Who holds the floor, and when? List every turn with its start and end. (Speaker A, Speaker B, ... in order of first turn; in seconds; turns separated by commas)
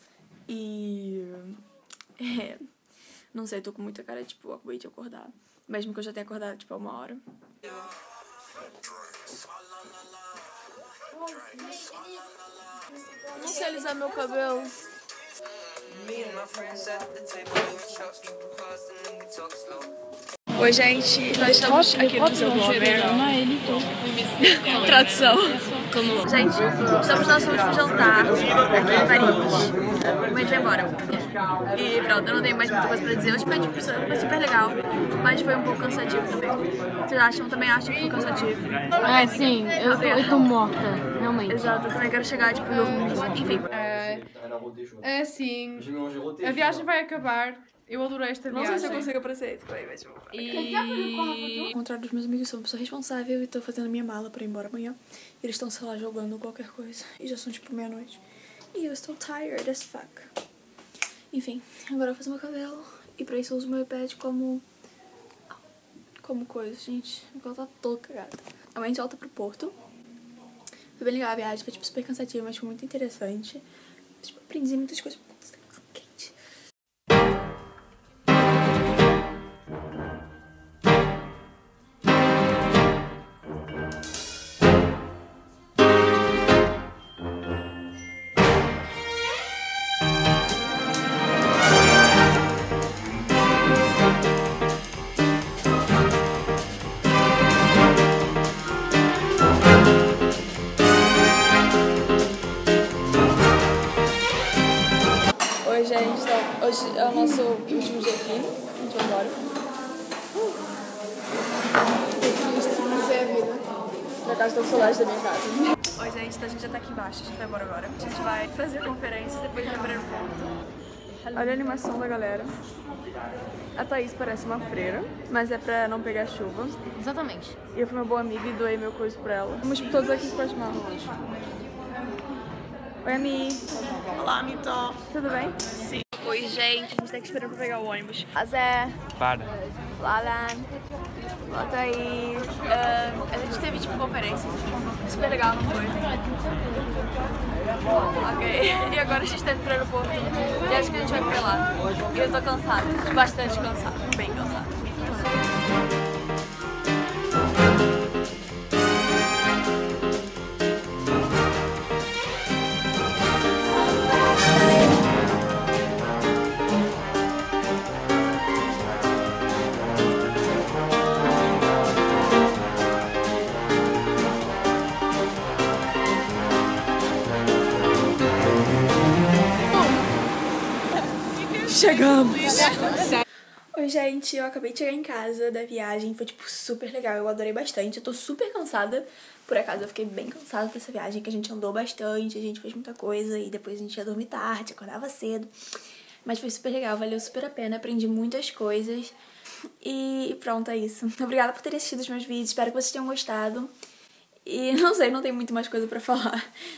Speaker A: 0.5-1.6, Speaker A: 2.2-2.6, Speaker A: 3.3-7.2, Speaker A: 13.3-14.7, Speaker A: 20.6-40.5, Speaker B: 21.9-23.3, Speaker B: 23.9-24.3, Speaker B: 39.1-41.3, Speaker C: 39.3-41.6, Speaker A: 41.5-43.7, Speaker B: 43.7-44.3, Speaker B: 45.0-49.1, Speaker A: 48.5-58.2, Speaker B: 50.4-51.1, Speaker A: 58.7-60.3, Speaker A: 61.3-64.6, Speaker A: 66.2-69.8, Speaker A: 71.0-73.7, Speaker A: 74.2-76.3, Speaker A: 105.6-109.4, Speaker A: 112.2-113.6, Speaker A: 114.2-120.5, Speaker A: 121.3-122.6, Speaker A: 123.8-126.8, Speaker C: 127.0-127.6, Speaker A: 127.7-131.1, Speaker A: 133.0-135.6, Speaker A: 136.2-139.0, Speaker A: 140.0-140.7, Speaker A: 141.5-146.2, Speaker A: 148.2-155.1, Speaker A: 181.5-183.2, Speaker A: 183.7-195.5, Speaker A: 196.2-199.2, Speaker A: 199.8-203.7, Speaker A: 204.4-206.5